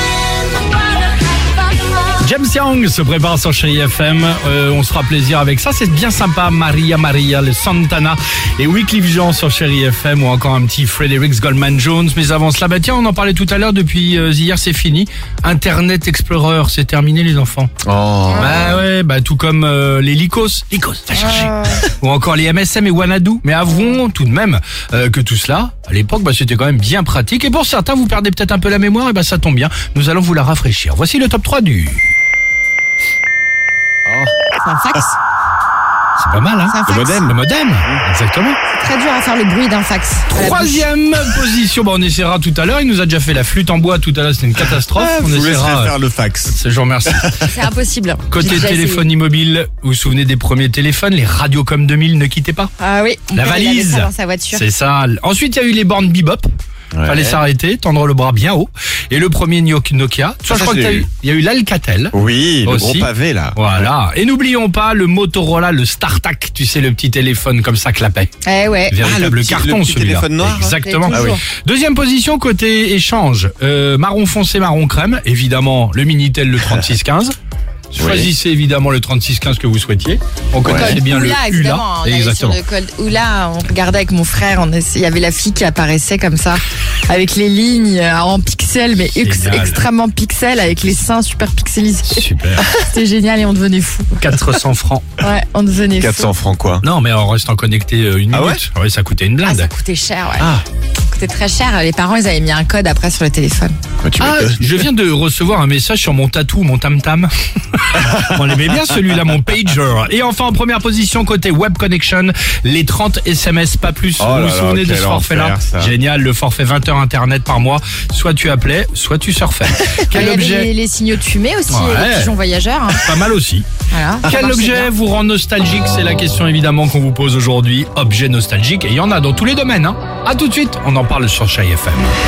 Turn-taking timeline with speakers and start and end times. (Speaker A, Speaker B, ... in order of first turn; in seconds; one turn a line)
Speaker A: 2.2-17.7
Speaker B: 17.8-18.8
Speaker C: 18.3-18.8
Speaker A: 18.3-32.0
Speaker C: 21.1-21.9
Speaker B: 34.1-34.3
Speaker C: 34.6-35.2
Speaker A: 36.2-38.6
Speaker C: 36.7-37.2
Speaker B: 36.9-37.4
Speaker C: 38.7-40.9
Speaker A: 40.3-46.0
Speaker B: 44.9-47.5
Speaker A: 46.5-47.4
Speaker C: 47.4-49.1
Speaker A: 48.3-52.7
Speaker C: 52.8-54.7
Speaker A: 53.4-56.5
Speaker B: 56.9-57.4
Speaker A: 57.0-68.3
Speaker B: 60.5-61.1
Speaker B: 62.1-63.6
Speaker C: 68.4-69.0
Speaker A: 68.9-77.3
Speaker B: 69.0-71.4
Speaker C: 70.8-71.4
Speaker A: 77.9-82.6
Speaker B: 78.0-78.3
Speaker C: 80.6-94.1
Speaker B: 80.6-81.0
Speaker A: 89.2-89.8
Speaker A: 92.1-92.7
Speaker A: 94.2-95.1
Speaker C: 95.2-96.3
Speaker B: 96.0-96.8
Speaker A: 96.8-99.7
Speaker B: 98.3-98.6
Speaker C: 99.5-100.5
Speaker B: 100.4-100.6
Speaker C: 101.1-103.8
Speaker B: 104.0-104.8
Speaker A: 104.2-120.7
Speaker B: 108.0-108.4
Speaker B: 114.2-116.0
Speaker C: 120.1-123.2
Speaker A: 121.7-122.3
Speaker A: 123.0-123.7
Speaker C: 123.9-124.9
Speaker A: 124.2-132.1